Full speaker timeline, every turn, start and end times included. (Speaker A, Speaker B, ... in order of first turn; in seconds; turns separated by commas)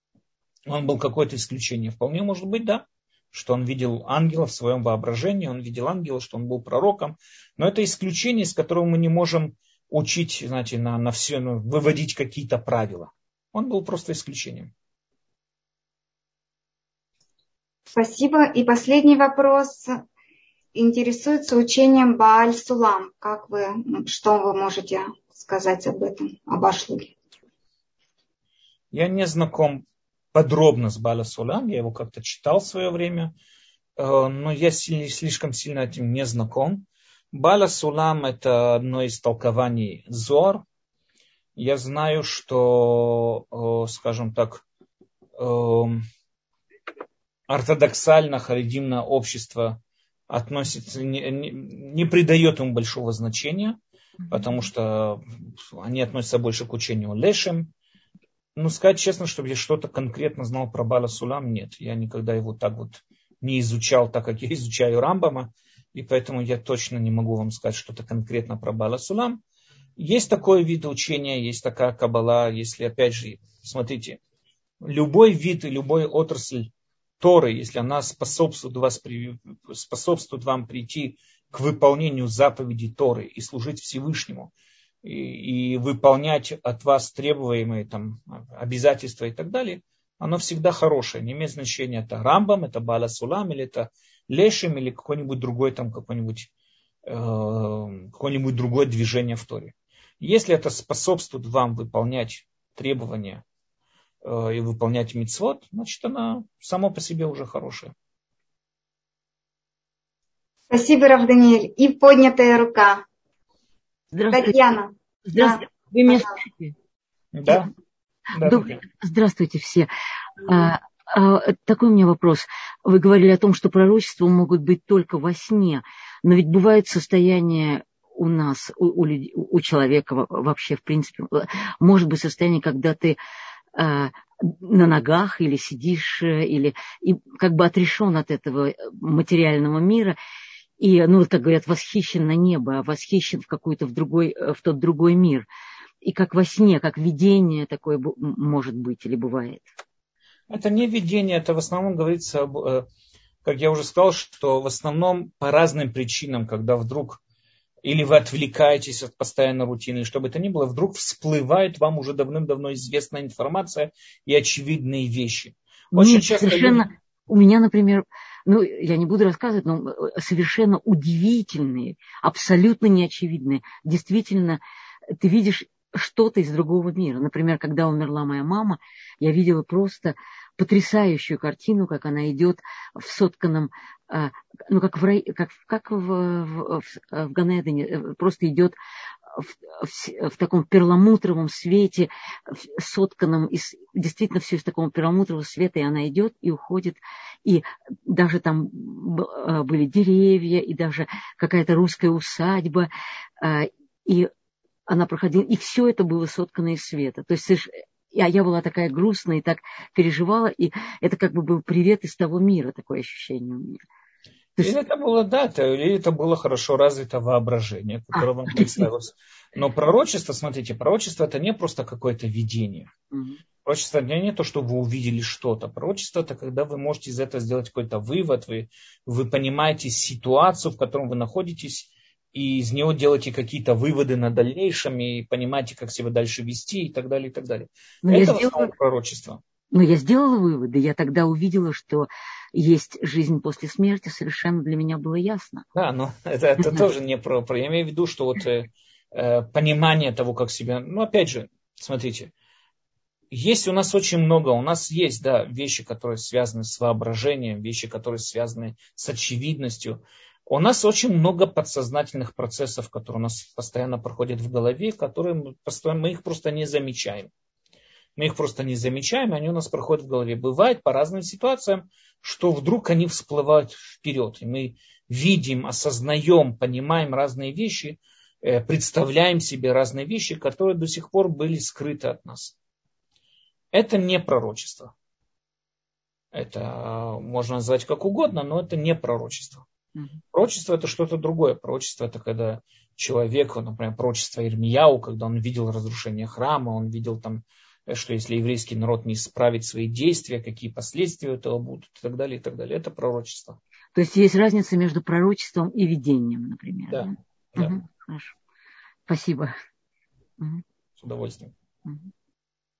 Speaker A: 0.7-14.7, Speaker B: 17.9-19.9, Speaker B: 20.7-27.1, Speaker A: 28.9-29.8, Speaker A: 30.3-33.3, Speaker A: 34.0-40.6, Speaker A: 41.5-44.6, Speaker A: 45.4-46.0, Speaker A: 47.5-53.8, Speaker A: 54.3-57.7, Speaker A: 58.5-69.4, Speaker A: 70.0-74.2, Speaker A: 74.8-76.7, Speaker A: 77.2-84.5, Speaker A: 85.0-96.5, Speaker A: 97.0-103.4, Speaker A: 104.2-107.9, Speaker B: 110.7-113.0, Speaker C: 114.1-114.5, Speaker B: 114.3-116.2, Speaker C: 115.3-116.7, Speaker A: 117.3-117.7, Speaker A: 118.3-118.8, Speaker C: 118.4-119.9, Speaker C: 120.4-133.2, Speaker C: 133.8-140.2, Speaker C: 140.8-145.5, Speaker C: 146.0-149.7, Speaker A: 150.5-152.8, Speaker A: 153.4-157.2, Speaker A: 157.8-166.8, Speaker C: 165.9-174.6, Speaker C: 175.2-188.8, Speaker C: 189.3-202.9, Speaker C: 203.4-204.3, Speaker C: 204.9-213.8, Speaker A: 214.6-222.9, Speaker C: 218.5-218.8, Speaker C: 223.1-223.4, Speaker A: 223.6-239.4, Speaker C: 238.0-238.7, Speaker C: 239.7-245.6, Speaker A: 245.7-252.3, Speaker A: 253.3-267.3, Speaker A: 268.1-282.5, Speaker A: 283.7-284.9, Speaker A: 286.3-289.6, Speaker A: 290.3-303.6, Speaker C: 303.9-308.4, Speaker A: 306.9-307.8, Speaker C: 309.1-309.5, Speaker A: 311.0-311.5